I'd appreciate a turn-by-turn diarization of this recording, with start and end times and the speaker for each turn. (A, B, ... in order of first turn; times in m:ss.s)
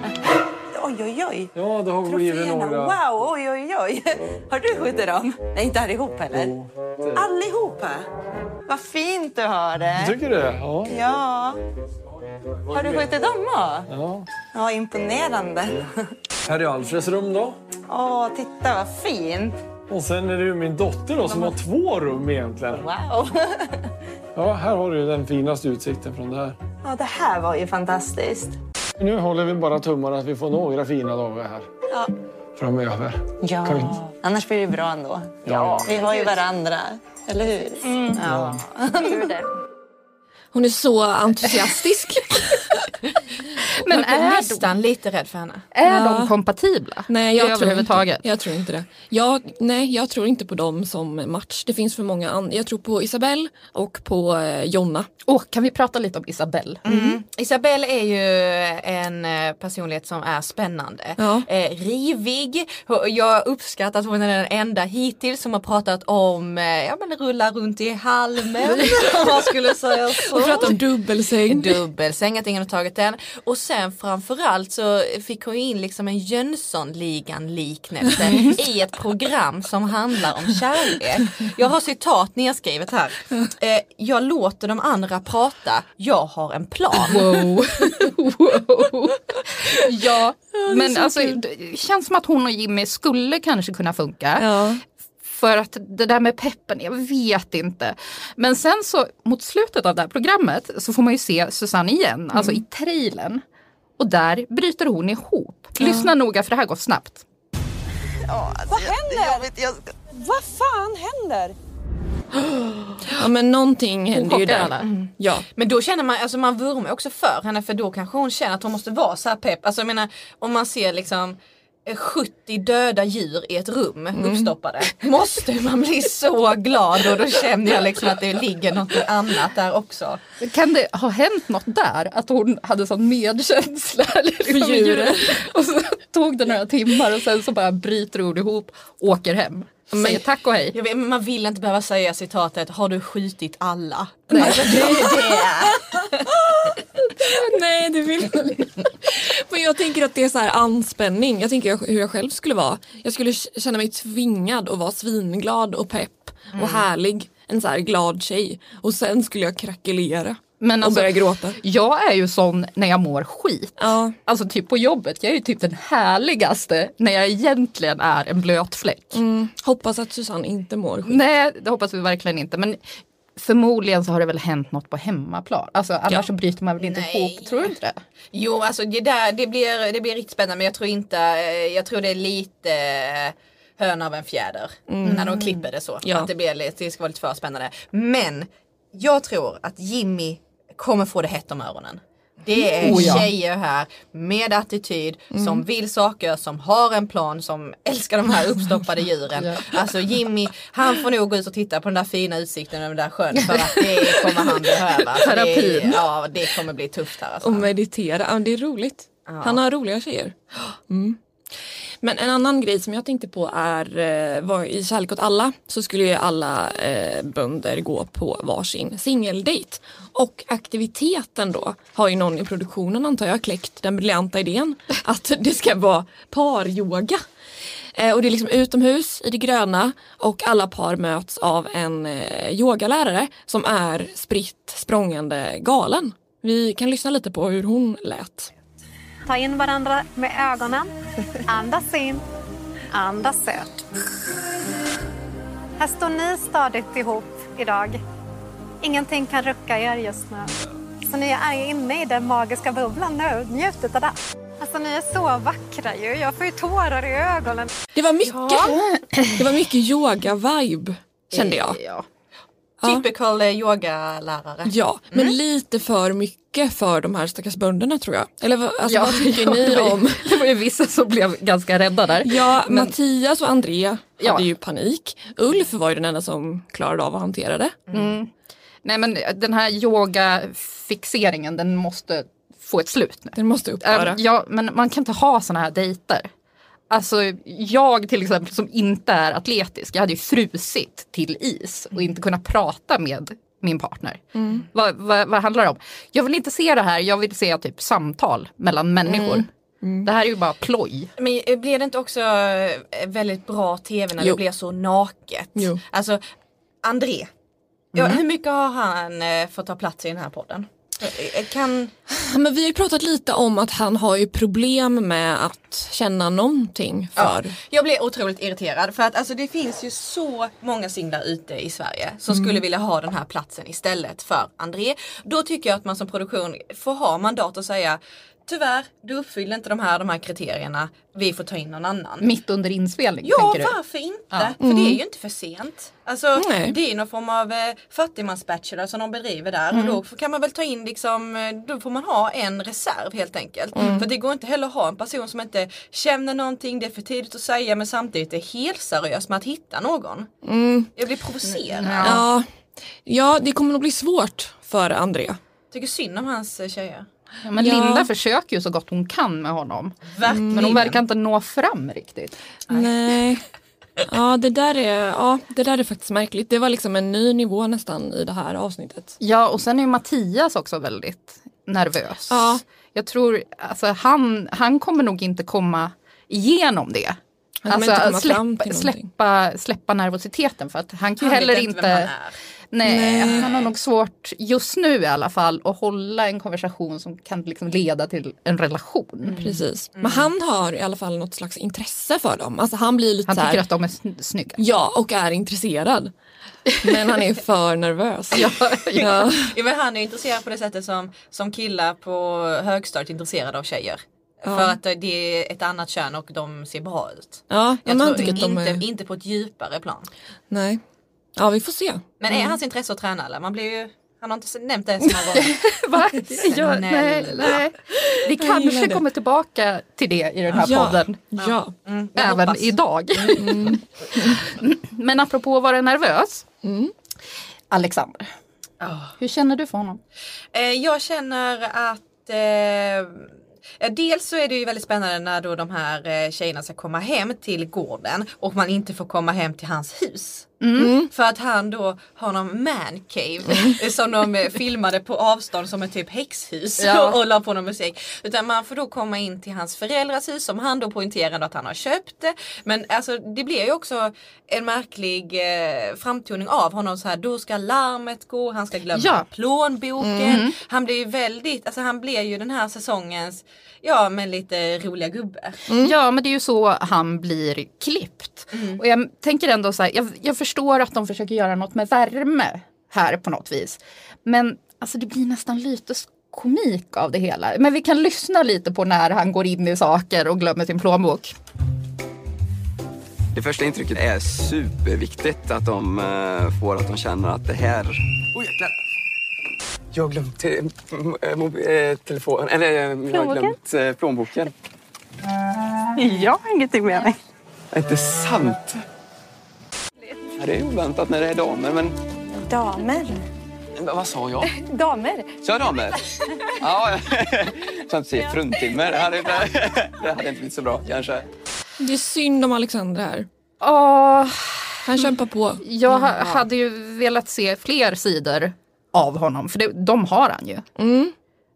0:00.7-0:01.5 A
0:01.5-0:03.0 B
0:02.0-0:06.6 A
0:06.3-0:07.3 B
0:07.1-0:08.1 A
0:08.7-0:10.2 A
0:10.0-0:10.9 B
0:10.9-0:11.6 A
0:12.7-0:13.9 A
0:12.8-0:13.0 B
0:13.9-0:14.3 B
0:14.5-0:15.9 A
0:16.5-0:17.6 B
0:17.9-0:19.6 A
0:19.9-0:22.9 B
0:21.2-0:21.6 A
0:22.7-0:23.8 A
0:24.4-0:26.6 B
0:26.8-0:28.6 A
0:29.0-0:31.7 B
0:32.6-0:34.0 B
0:33.4-0:39.4 A
0:35.4-0:36.0 B
0:38.3-0:38.6 B
0:40.5-0:42.3 C
0:43.8-0:44.7 D
0:43.9-0:45.7 E
0:45.7-0:48.3 D
0:45.9-0:46.3 C
0:47.1-0:55.1 C
0:55.3-0:57.2 D
0:56.8-1:10.8 E
1:01.2-1:01.5 C
1:08.8-1:09.2 C
1:10.3-1:11.8 C
1:11.5-1:27.3 E
1:18.2-1:18.6 D
1:27.1-1:34.6 D
1:30.5-1:31.4 C
1:34.4-1:34.8 C
1:35.2-1:43.4 D
1:44.0-1:47.2 D
1:45.8-1:46.1 C
1:48.3-1:51.6 A
1:53.1-1:55.5 C
1:54.2-1:54.9 D
1:54.3-2:10.2 E
2:04.2-2:04.5 C
2:10.4-2:20.8 D
2:14.5-2:15.4 C
2:19.9-2:20.2 C
2:20.7-2:25.8 E
2:24.3-2:25.1 D
2:24.4-2:41.6 C
2:40.6-2:49.2 D
2:43.8-2:44.2 C
2:49.1-2:51.2 C
2:51.0-2:52.8 D
2:53.4-2:58.0 D
2:56.8-2:57.7 E
2:58.3-3:27.7 E
3:04.9-3:05.2 C
3:05.0-3:05.6 D
3:06.0-3:06.3 C
3:12.8-3:13.3 D
3:12.8-3:13.2 C
3:15.3-3:15.6 C
3:19.4-3:19.8 D
3:23.4-3:24.5 D
3:25.2-3:26.0 D
3:27.4-3:31.2 C
3:29.3-3:29.6 E
3:32.0-3:47.2 C
3:48.0-3:58.5 C
3:59.3-4:00.9 F
4:01.4-4:02.2 F
4:02.9-4:03.8 F
4:05.8-4:08.0 F
4:08.8-4:17.7 F
4:18.0-4:18.8 C
4:18.5-4:19.2 D
4:19.4-4:21.8 C
4:21.3-4:22.1 D
4:22.8-4:25.4 E
4:24.7-4:30.3 C
4:28.8-4:32.9 D
4:32.2-4:37.8 C
4:34.2-4:34.5 D
4:37.9-4:38.1 E
4:37.9-4:38.3 D
4:38.8-4:46.3 D
4:43.4-4:44.2 C
4:46.9-4:59.5 D
4:54.4-4:54.6 C
4:59.1-5:00.1 C
5:00.0-5:01.1 D
5:01.2-5:06.2 E
5:06.8-5:07.3 E
5:07.9-5:11.9 E
5:12.1-5:17.6 C
5:17.2-5:32.3 E
5:32.2-5:33.8 D
5:33.2-5:50.3 E
5:34.6-5:35.0 C
5:36.4-5:36.8 C
5:39.7-5:40.0 D
5:43.8-5:44.0 C
5:50.4-5:50.9 C
5:51.0-5:52.2 E
5:51.7-5:52.2 D
5:52.0-5:52.5 C
5:53.0-5:55.4 C
5:55.7-5:57.1 E
5:57.4-6:02.4 D
5:57.6-5:58.1 C
6:00.1-6:01.0 E
6:00.3-6:00.6 C
6:02.7-6:03.4 C
6:04.1-6:09.2 C
6:09.2-6:17.2 D
6:12.3-6:12.6 C
6:17.6-6:19.1 C
6:17.7-6:22.1 D
6:21.2-6:22.4 E
6:22.7-6:29.5 D
6:22.8-6:23.5 C
6:23.2-6:23.7 E
6:29.3-6:33.6 C
6:30.0-6:30.3 E
6:33.3-6:34.6 D
6:34.6-6:36.1 C
6:36.7-6:37.0 D
6:36.8-6:39.5 C
6:38.4-6:39.2 D
6:39.2-6:50.1 E
6:44.5-6:44.8 C
6:47.5-6:48.8 C
6:50.5-6:50.8 C
6:51.4-6:52.0 C
6:52.2-6:57.6 E
6:55.4-7:01.2 D
6:58.0-6:59.0 C
7:00.5-7:01.7 C
7:01.4-7:03.7 E
7:02.2-7:06.5 D
7:03.4-7:04.4 C
7:06.6-7:06.9 C
7:07.7-7:08.3 D
7:08.8-7:09.1 E
7:09.2-7:10.0 D
7:10.5-7:45.6 E
7:20.6-7:20.9 D
7:20.8-7:21.1 C
7:26.8-7:27.2 D
7:38.9-7:39.3 D
7:40.0-7:40.3 C
7:40.2-7:40.5 D
7:45.7-7:45.9 C
7:45.8-8:01.4 D
7:48.5-7:48.8 E
8:03.3-8:08.8 G
8:09.9-8:14.5 G
8:13.1-8:13.6 F
8:16.2-8:17.1 F
8:17.7-8:18.8 G
8:20.4-8:22.0 G
8:22.4-8:23.2 F
8:23.8-8:24.5 G
8:24.5-8:25.3 F
8:25.4-8:26.0 G
8:26.6-8:31.3 G
8:31.8-8:33.3 C
8:33.6-8:34.8 D
8:34.8-8:35.6 C
8:35.6-8:40.7 D
8:40.8-8:41.1 C